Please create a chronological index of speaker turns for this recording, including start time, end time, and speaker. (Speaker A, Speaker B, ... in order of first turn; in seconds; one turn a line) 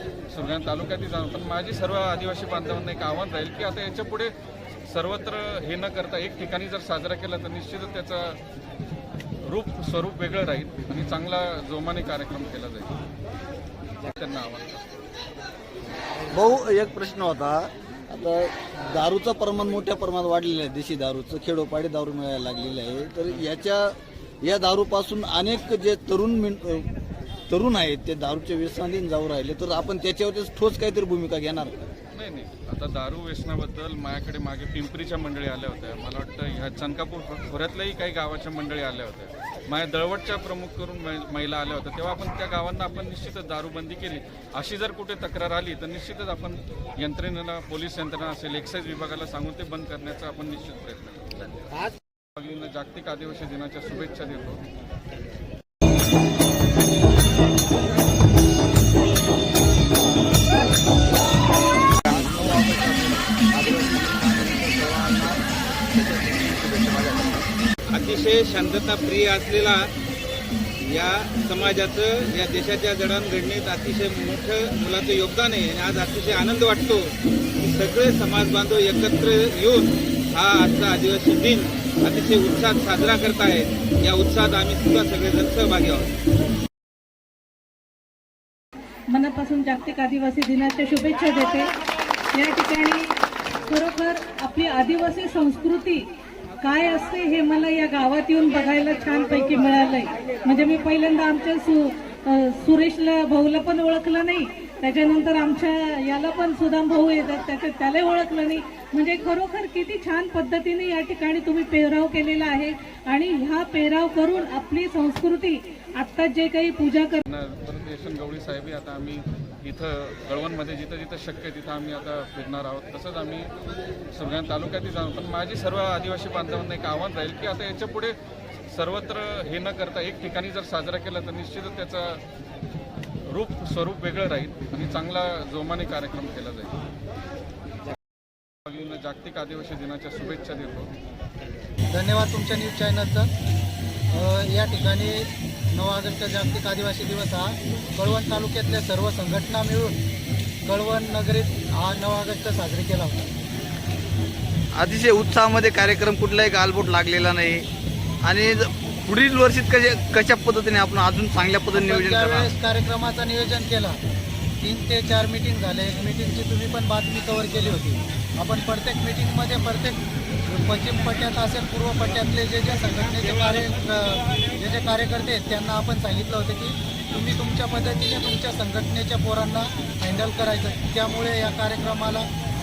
Speaker A: 0.3-8.4
Speaker A: 9.4-12.9
Speaker A: 14.0-15.0
Speaker B: 16.3-26.9
Speaker B: 27.5-31.8
Speaker A: 32.1-54.6
Speaker B: 62.1-67.5
Speaker C: 67.9-69.8
Speaker C: 70.9-86.1
Speaker D: 89.1-91.7
Speaker D: 92.3-93.2
Speaker D: 93.7-96.1
Speaker D: 96.6-117.2
Speaker A: 117.3-123.5
Speaker A: 124.1-128.2
Speaker A: 128.7-132.2
Speaker A: 133.3-136.8
Speaker A: 138.7-140.9
Speaker E: 141.9-143.3
Speaker E: 144.1-149.9
Speaker E: 150.7-153.2
Speaker B: 154.8-157.7
Speaker B: 158.2-162.5
Speaker E: 161.7-164.0
Speaker E: 164.6-182.3